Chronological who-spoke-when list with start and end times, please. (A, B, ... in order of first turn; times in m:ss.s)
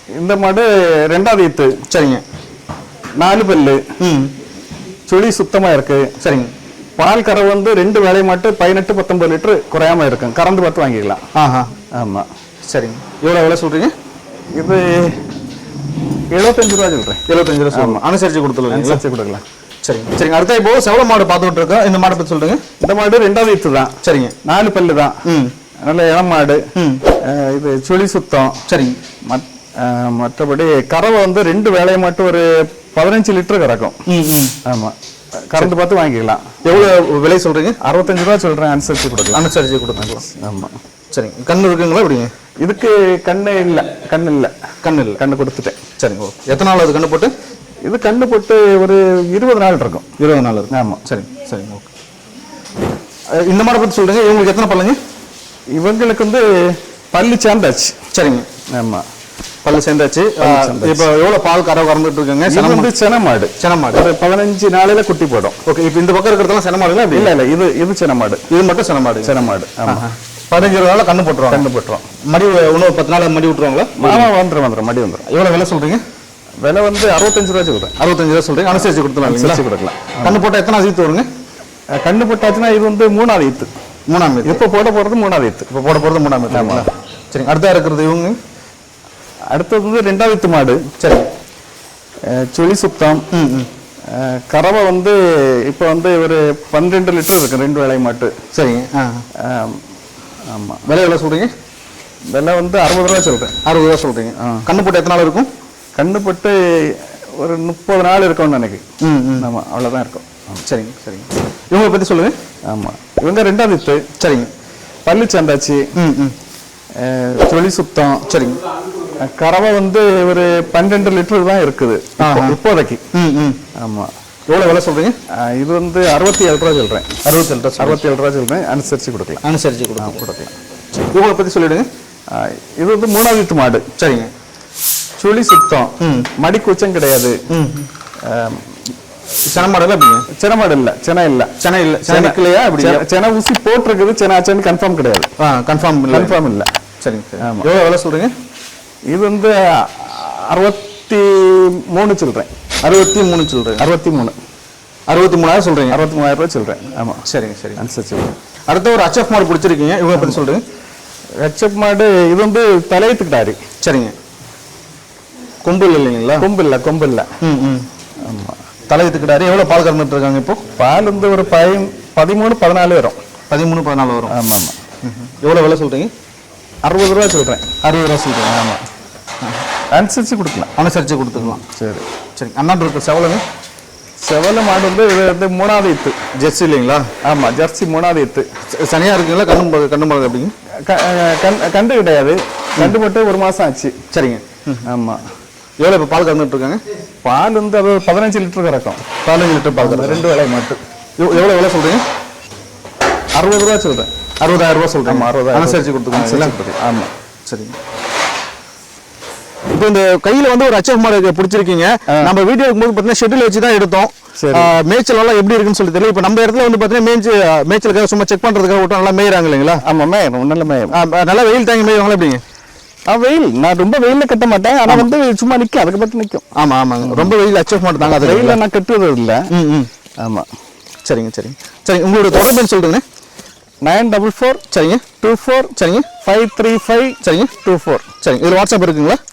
0:00.2-0:01.8 A
0:01.9-0:02.2 B
0:03.2-0:03.8 A
0:04.0-0:04.3 B
0:05.1-0:06.1 A
0:06.2-0:06.5 B
0:07.0-0:11.2 A
0:11.3-0:11.7 B
0:12.0-0:12.3 A
0:12.7-0:13.9 B
0:14.6-0:15.2 A
0:16.3-0:17.2 A
0:17.3-0:19.0 B
0:17.7-0:18.0 A
0:18.7-0:19.4 A
0:19.8-0:22.6 B
0:22.8-0:25.2 A
0:24.0-0:24.3 B
0:25.2-0:25.5 B
0:25.9-0:26.6 A
0:26.7-0:27.0 B
0:27.2-0:28.6 A
0:28.7-0:29.0 B
0:29.3-0:34.0 A
0:34.1-0:34.5 B
0:34.6-0:34.9 A
0:35.5-0:36.4 A
0:36.6-0:37.8 B
0:37.8-0:39.4 A
0:39.3-0:40.2 B
0:40.0-0:40.7 A
0:41.1-0:42.3 B
0:42.6-0:44.5 A
0:44.8-0:45.2 B
0:45.2-0:45.8 A
0:46.0-0:47.3 B
0:47.8-0:50.1 A
0:50.2-0:51.9 B
0:50.7-0:51.0 A
0:53.3-0:55.0 B
0:55.8-0:58.0 A
0:58.1-0:58.5 B
0:58.8-0:59.0 A
0:59.6-1:02.9 B
1:00.4-1:01.1 A
1:02.5-1:05.6 A
1:03.6-1:04.0 B
1:05.6-1:07.3 B
1:07.1-1:08.4 A
1:08.5-1:11.6 B
1:09.2-1:10.0 A
1:11.5-1:12.0 A
1:12.3-1:14.3 B
1:14.0-1:15.2 A
1:15.2-1:16.0 B
1:16.6-1:17.9 A
1:18.0-1:19.6 B
1:19.2-1:20.4 A
1:20.2-1:21.3 B
1:22.0-1:23.7 A
1:24.1-1:24.6 B
1:24.4-1:25.7 A
1:25.7-1:28.4 B
1:26.5-1:26.9 A
1:29.5-1:30.8 A
1:31.0-1:31.3 B
1:32.3-1:33.2 A
1:33.3-1:33.7 B
1:34.1-1:38.3 A
1:38.5-1:39.2 B
1:39.4-1:39.8 A
1:40.5-1:40.8 A
1:40.8-1:41.5 B
1:42.3-1:43.6 A
1:43.6-1:45.5 B
1:44.4-1:44.6 A
1:46.0-1:48.8 A
1:49.0-1:49.5 B
1:49.4-1:50.6 A
1:50.6-1:52.3 B
1:52.7-1:54.0 A
1:54.2-1:54.5 B
1:55.0-1:55.9 A
1:56.0-1:56.3 B
1:57.0-1:58.2 A
1:58.3-1:58.6 B
1:59.2-2:03.0 A
2:02.2-2:02.6 B
2:03.1-2:03.6 B
2:03.8-2:04.1 A
2:04.5-2:05.1 B
2:05.4-2:07.1 A
2:07.2-2:08.0 B
2:07.8-2:09.4 A
2:09.4-2:10.2 B
2:10.0-2:10.5 A
2:11.1-2:11.9 B
2:12.3-2:13.9 A
2:14.0-2:14.3 B
2:15.2-2:17.4 A
2:16.0-2:16.3 B
2:17.5-2:17.9 B
2:18.2-2:18.6 A
2:19.5-2:20.2 B
2:20.3-2:21.5 A
2:21.6-2:23.0 B
2:22.0-2:25.3 A
2:25.4-2:26.4 B
2:26.1-2:26.7 A
2:27.0-2:28.3 B
2:27.4-2:27.7 A
2:29.1-2:32.5 A
2:32.8-2:33.8 B
2:33.8-2:34.3 A
2:35.1-2:36.0 B
2:35.9-2:37.2 A
2:37.2-2:37.8 B
2:37.8-2:38.3 A
2:38.7-2:40.6 B
2:41.4-2:43.6 A
2:43.8-2:44.1 B
2:45.6-2:46.5 B
2:46.4-2:47.3 A
2:47.4-2:47.8 B
2:48.2-2:48.6 A
2:48.9-2:50.6 B
2:50.8-2:53.2 A
2:53.5-2:54.3 B
2:54.3-2:54.7 A
2:55.0-2:56.1 B
2:56.8-2:57.7 A
2:57.8-2:58.5 B
2:58.4-2:58.8 A
2:59.9-3:00.7 A
3:00.8-3:01.6 B
3:01.4-3:02.0 A
3:02.4-3:03.4 B
3:04.2-3:06.2 A
3:06.4-3:07.1 B
3:07.2-3:08.5 A
3:08.7-3:10.5 B
3:10.9-3:13.9 A
3:14.1-3:14.8 B
3:14.8-3:15.2 A
3:15.8-3:16.8 B
3:17.2-3:19.0 A
3:19.2-3:20.2 B
3:19.7-3:20.8 A
3:21.2-3:22.0 B
3:23.4-3:24.1 A
3:24.4-3:26.6 B
3:25.0-3:27.1 A
3:27.5-3:27.7 B
3:29.7-3:39.8 B
3:34.4-3:34.7 A
3:39.8-3:41.0 A
3:40.9-3:42.4 B
3:43.1-3:46.4 A
3:46.5-3:48.6 B
3:47.0-3:47.3 A
3:48.0-3:49.5 A
3:49.5-3:49.9 B
3:50.2-3:50.5 A
3:51.0-3:53.0 B
3:53.8-3:54.6 A
3:54.7-3:55.1 B
3:55.2-3:58.0 A
3:55.7-3:56.1 B
3:57.2-3:57.5 B
3:58.2-3:59.2 B